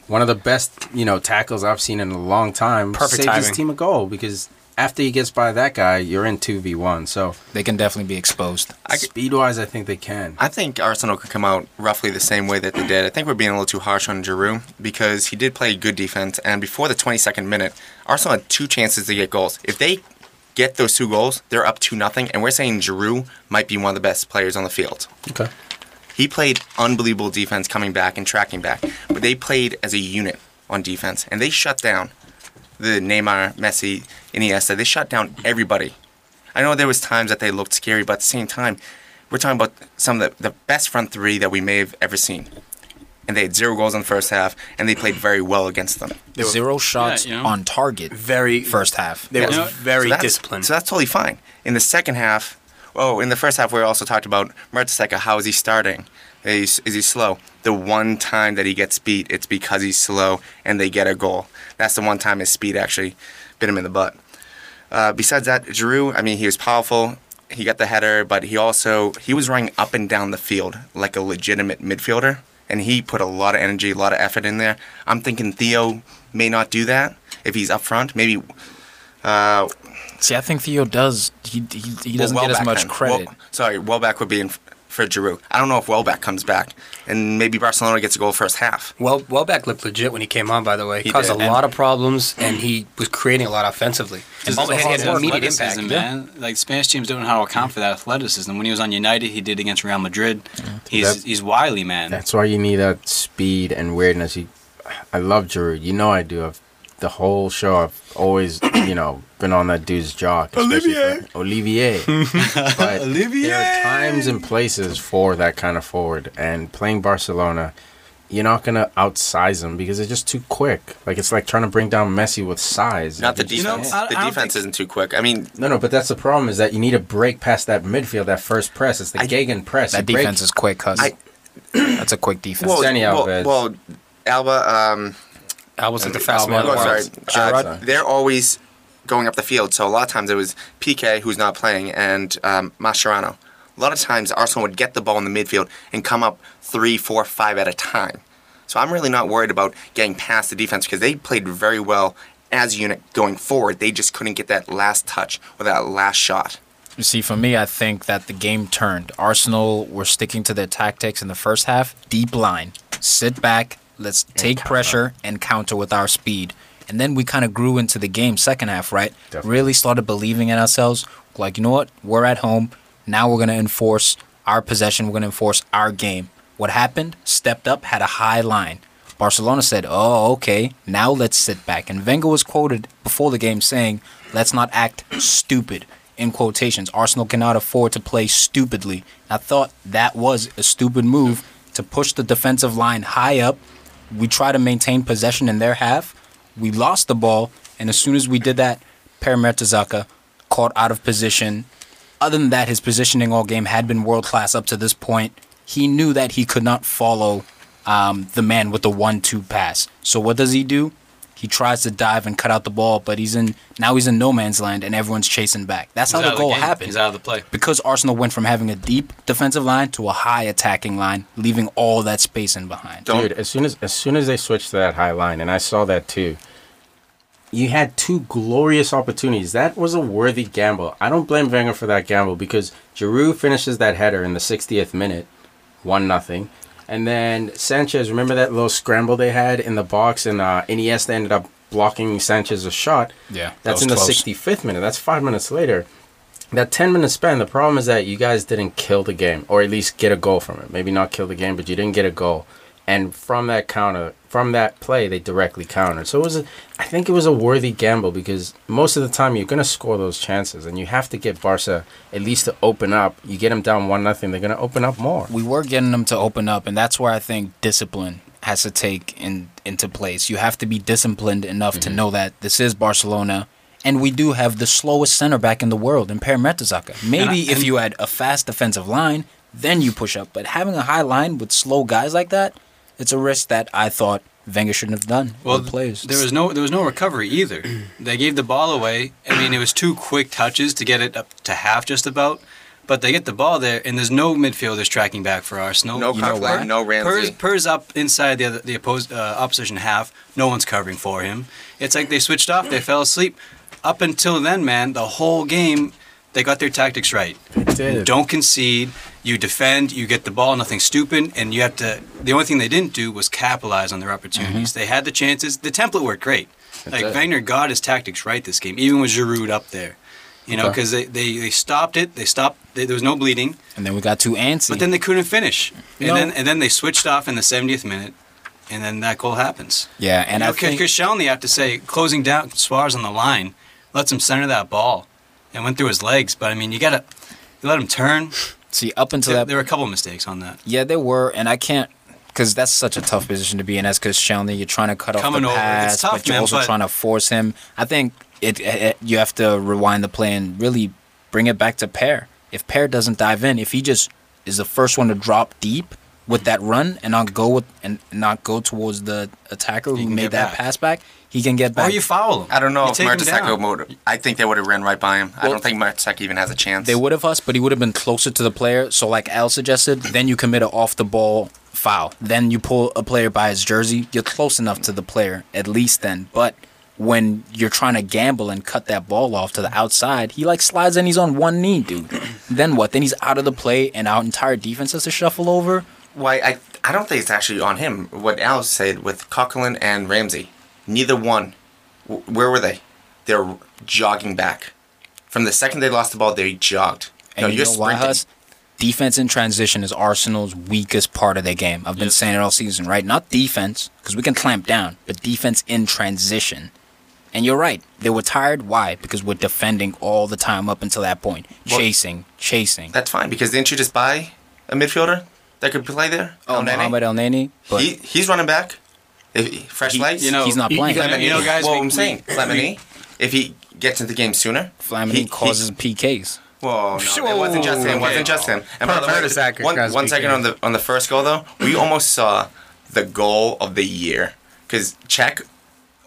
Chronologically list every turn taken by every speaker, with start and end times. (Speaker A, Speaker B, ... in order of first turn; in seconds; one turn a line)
Speaker A: 0.1-7.4
Speaker B: 2.9-3.6
Speaker C: 7.5-8.8
Speaker A: 9.0-10.4
Speaker D: 10.4-20.0
Speaker D: 20.6-25.1
Speaker D: 26.1-32.1
Speaker D: 32.8-36.0
Speaker D: 36.5-38.8
Speaker D: 39.3-42.5
Speaker D: 43.3-46.2
Speaker C: 46.4-48.1
Speaker E: 47.0-47.5
Speaker B: 48.1-50.7
Speaker C: 48.6-49.3
Speaker D: 49.4-64.2
Speaker E: 49.4-49.7
Speaker D: 64.9-78.5
Speaker D: 79.2-79.7
Speaker C: 80.2-83.3
Speaker D: 82.2-88.9
Speaker B: 89.0-95.9
Speaker A: 91.0-91.4
Speaker C: 94.5-96.1
Speaker E: 94.5-102.2
Speaker A: 100.9-101.2
Speaker A: 102.1-117.7
Speaker B: 110.8-111.1
Speaker B: 112.1-112.5
Speaker E: 112.4-114.3
Speaker A: 118.3-123.9
Speaker D: 123.2-125.5
Speaker E: 123.6-124.6
Speaker A: 125.6-130.4
Speaker C: 129.9-131.1
Speaker D: 131.7-132.0
Speaker C: 131.8-132.9
Speaker D: 132.6-135.2
Speaker A: 132.7-133.5
Speaker B: 135.8-137.1
Speaker A: 136.0-137.8
Speaker D: 136.6-156.6
Speaker C: 137.3-137.7
Speaker C: 157.0-201.7
Speaker A: 164.4-165.0
Speaker C: 202.2-217.0
Speaker E: 216.1-217.4
Speaker C: 217.5-223.1
Speaker D: 223.1-223.3
Speaker A: 223.1-226.4
Speaker A: 227.5-235.3
Speaker A: 235.8-245.9
Speaker C: 243.3-244.2
Speaker A: 246.5-265.3
Speaker C: 265.3-286.2
Speaker A: 271.8-272.0
Speaker E: 277.1-277.7
Speaker E: 285.4-323.6
Speaker D: 295.9-297.4
Speaker C: 296.1-296.7
Speaker A: 307.6-308.2
Speaker C: 314.4-314.7
Speaker A: 316.9-317.2
Speaker A: 320.5-320.8
Speaker C: 323.8-324.9
Speaker E: 324.7-328.1
Speaker C: 326.0-326.3
Speaker E: 328.7-337.1
Speaker C: 330.0-330.8
Speaker E: 337.6-338.4
Speaker C: 338.7-339.5
Speaker E: 339.2-340.6
Speaker C: 340.7-362.0
Speaker E: 345.2-346.7
Speaker E: 360.0-360.6
Speaker E: 361.8-363.6
Speaker D: 362.5-367.0
Speaker C: 366.8-385.9
Speaker D: 386.1-391.6
Speaker D: 392.1-394.7
Speaker D: 395.3-398.2
Speaker C: 397.4-398.3
Speaker C: 398.8-406.7
Speaker C: 407.3-412.9
Speaker D: 412.9-416.9
Speaker C: 416.5-417.9
Speaker D: 417.7-418.8
Speaker D: 419.3-420.4
Speaker C: 419.9-421.4
Speaker E: 420.0-422.7
Speaker B: 420.7-421.4
Speaker D: 420.9-425.6
Speaker C: 424.8-426.4
Speaker D: 426.6-435.4
Speaker B: 427.0-428.3
Speaker E: 427.5-428.4
Speaker B: 428.8-430.4